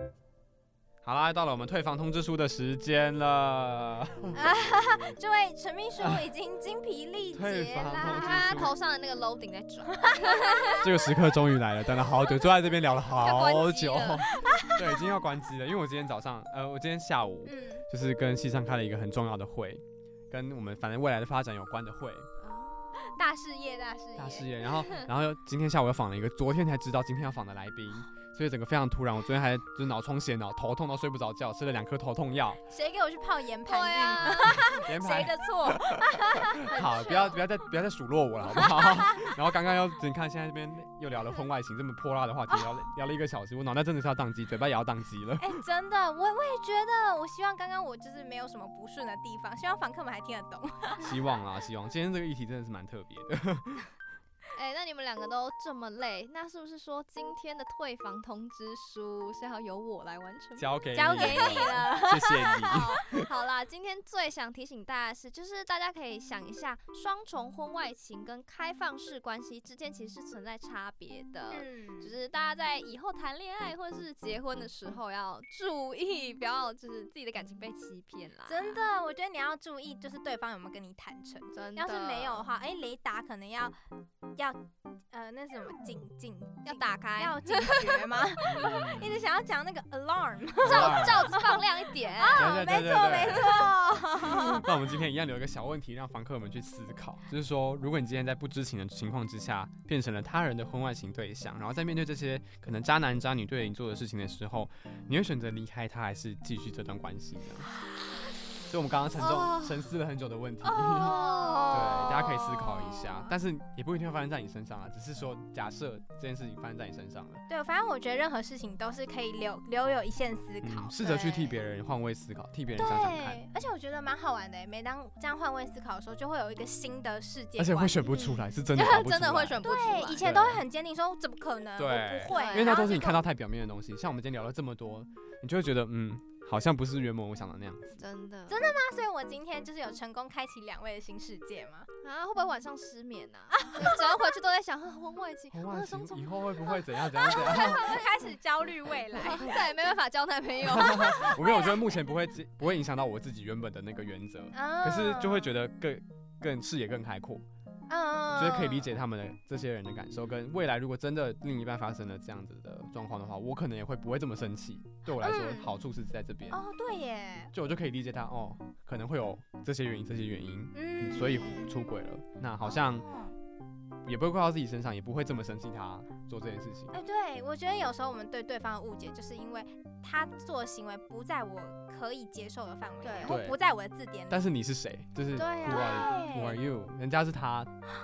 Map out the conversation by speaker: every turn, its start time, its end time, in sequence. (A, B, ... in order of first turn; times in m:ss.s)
0:01.0-0:04.3 A
0:04.3-0:08.7 B
0:06.0-0:06.3 A
0:07.3-0:08.8 A
0:08.0-0:10.9 C
0:09.9-0:11.2 B
0:10.8-0:22.3 A
0:13.1-0:14.7 C
0:14.4-0:15.0 B
0:17.4-0:17.8 B
0:22.4-0:23.2 C
0:23.0-0:24.5 B
0:24.2-0:32.6 A
0:24.8-0:25.1 C
0:32.7-0:37.4 B
0:33.6-0:35.7 C
0:34.4-0:45.5 A
0:38.4-0:39.3 B
0:42.5-0:42.8 B
0:45.4-0:51.1 B
0:51.0-0:53.9 A
0:54.5-1:01.8 C
1:00.6-1:03.3 A
1:00.9-1:03.0 B
1:02.6-1:18.8 C
1:11.5-1:12.1 B
1:18.5-1:23.8 B
1:21.5-1:22.5 C
1:24.4-1:31.6 B
1:26.6-1:28.8 C
1:28.4-1:29.2 A
1:30.6-1:31.4 A
1:30.6-1:32.6 C
1:32.1-1:34.7 B
1:32.3-1:33.7 A
1:33.3-1:33.6 C
1:34.2-1:47.7 A
1:34.3-1:34.6 C
1:48.7-1:57.4 A
1:49.2-1:49.8 C
1:50.6-1:53.3 C
1:50.9-1:52.4 B
1:57.5-2:01.6 B
2:00.6-2:03.4 A
2:02.8-2:08.4 B
2:07.6-2:09.6 A
2:08.7-2:10.2 C
2:09.6-2:13.2 B
2:10.2-2:10.6 A
2:11.8-2:18.0 A
2:12.3-2:12.9 C
2:17.9-2:18.6 C
2:18.5-2:21.9 B
2:22.0-2:25.6 C
2:23.5-2:24.4 B
2:25.5-2:28.0 A
2:25.7-2:29.6 B
2:27.3-2:28.0 C
2:29.1-2:31.5 C
2:30.6-2:37.4 A
2:31.2-2:31.8 B
2:34.5-2:35.5 B
2:37.9-2:38.9 B
2:38.3-2:46.6 A
2:45.1-2:45.7 B
2:46.5-2:47.5 B
2:47.5-2:53.1 A
2:50.7-2:51.6 B
2:51.2-2:51.7 C
2:52.6-2:53.3 B
2:54.0-2:56.9 A
2:56.9-3:04.5 B
3:03.0-3:03.4 C
3:03.2-3:03.6 A
3:04.3-3:07.7 A
3:05.3-3:06.2 C
3:05.6-3:06.6 B